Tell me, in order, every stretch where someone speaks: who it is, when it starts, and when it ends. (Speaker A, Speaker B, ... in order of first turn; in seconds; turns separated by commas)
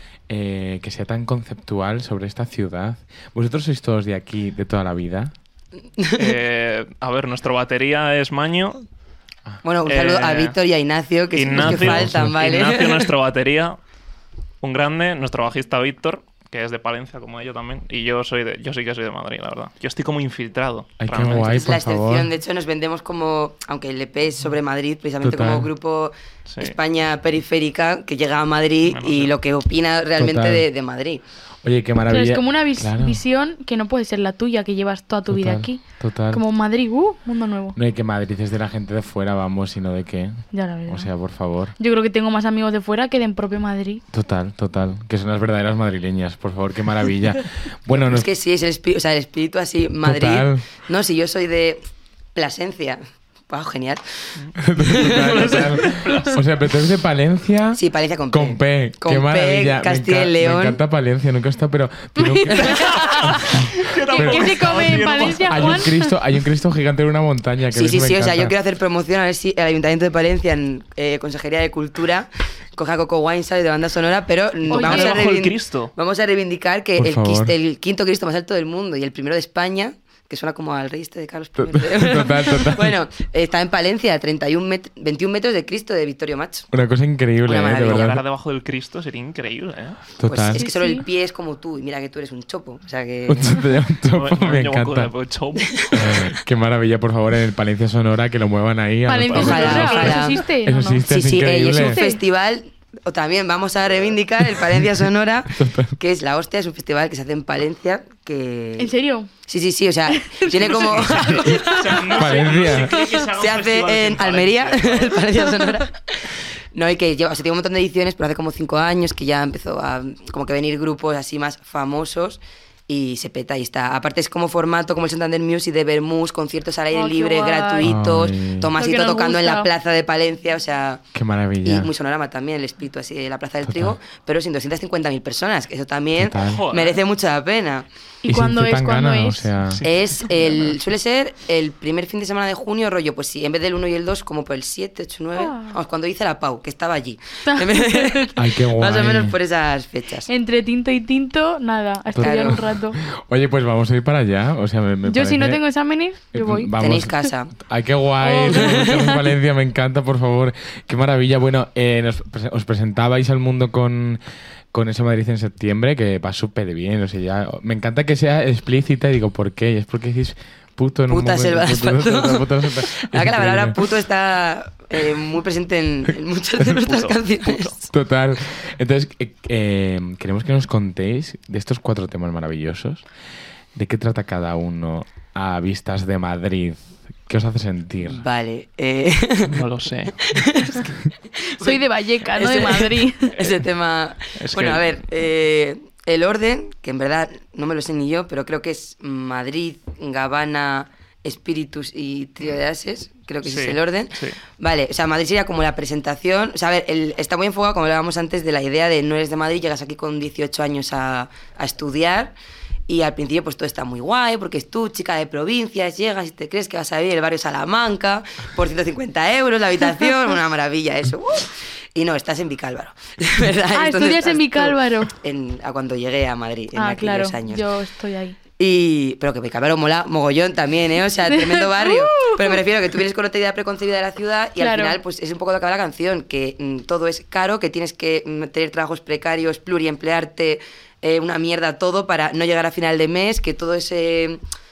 Speaker A: 0.3-5.3, Speaker B: 6.0-6.4, Speaker C: 6.2-8.8, Speaker B: 9.6-13.1, Speaker C: 9.8-10.6, Speaker C: 11.4-13.8, Speaker A: 11.6-12.4, Speaker C: 14.6-21.6, Speaker A: 21.0-22.3, Speaker B: 21.3-31.2, Speaker A: 25.2-25.7, Speaker C: 26.5-26.8, Speaker C: 28.9-29.3, Speaker A: 30.2-30.7, Speaker A: 31.6-33.2, Speaker D: 32.1-37.8, Speaker A: 35.3-36.4, Speaker A: 37.7-41.7, Speaker D: 40.5-41.1, Speaker D: 41.8-44.0, Speaker A: 44.1-48.3, Speaker B: 47.9-51.8, Speaker A: 50.0-50.6, Speaker B: 52.4-54.0, Speaker C: 54.4-56.4, Speaker A: 54.6-68.5, Speaker B: 54.8-55.6, Speaker B: 57.8-60.8, Speaker D: 62.2-66.1, Speaker C: 62.5-65.9, Speaker B: 67.7-86.7, Speaker C: 74.7-75.9, Speaker D: 74.7-75.2, Speaker A: 77.0-77.5, Speaker A: 81.6-83.0, Speaker A: 86.7-88.2, Speaker B: 87.5-88.2, Speaker C: 87.7-90.0, Speaker A: 90.2-90.6, Speaker B: 90.2-93.6, Speaker D: 90.5-91.0, Speaker A: 93.3-95.1, Speaker C: 94.1-96.1, Speaker B: 95.7-96.3, Speaker A: 95.9-102.0, Speaker D: 99.1-101.0, Speaker B: 99.3-100.4, Speaker C: 99.4-100.2, Speaker B: 101.1-108.9, Speaker D: 101.7-102.2, Speaker A: 104.6-104.9, Speaker A: 105.5-106.0, Speaker D: 108.8-109.3, Speaker B: 109.5-112.0, Speaker D: 110.1-110.5, Speaker C: 110.5-115.6, Speaker D: 111.3-112.1, Speaker A: 112.1-113.0, Speaker B: 113.4-131.0, Speaker D: 126.9-128.0, Speaker A: 127.8-128.7, Speaker D: 128.7-129.7, Speaker A: 131.1-131.9, Speaker B: 131.6-137.9, Speaker A: 133.7-134.0, Speaker A: 136.2-136.7, Speaker C: 136.4-137.0, Speaker D: 138.2-139.5, Speaker A: 138.3-139.8, Speaker C: 139.7-140.3, Speaker B: 139.8-150.3, Speaker D: 145.4-145.8, Speaker D: 147.5-148.3, Speaker A: 148.4-149.3, Speaker D: 150.3-153.0, Speaker A: 152.1-155.6, Speaker B: 152.2-152.6, Speaker D: 155.1-156.7, Speaker A: 156.3-164.2, Speaker B: 156.8-157.5, Speaker D: 158.2-159.2, Speaker B: 158.5-159.1, Speaker A: 164.7-173.8, Speaker B: 171.1-177.8, Speaker C: 176.6-177.8, Speaker A: 177.9-183.0, Speaker A: 183.8-188.2, Speaker B: 188.0-189.6, Speaker C: 189.5-190.7, Speaker B: 190.2-190.9, Speaker B: 191.5-212.3, Speaker D: 191.6-193.4, Speaker C: 194.4-194.8, Speaker C: 203.4-204.4, Speaker B: 212.9-227.7, Speaker D: 223.7-225.1, Speaker D: 226.8-228.4, Speaker B: 228.6-244.4, Speaker D: 231.3-232.6, Speaker D: 234.6-235.0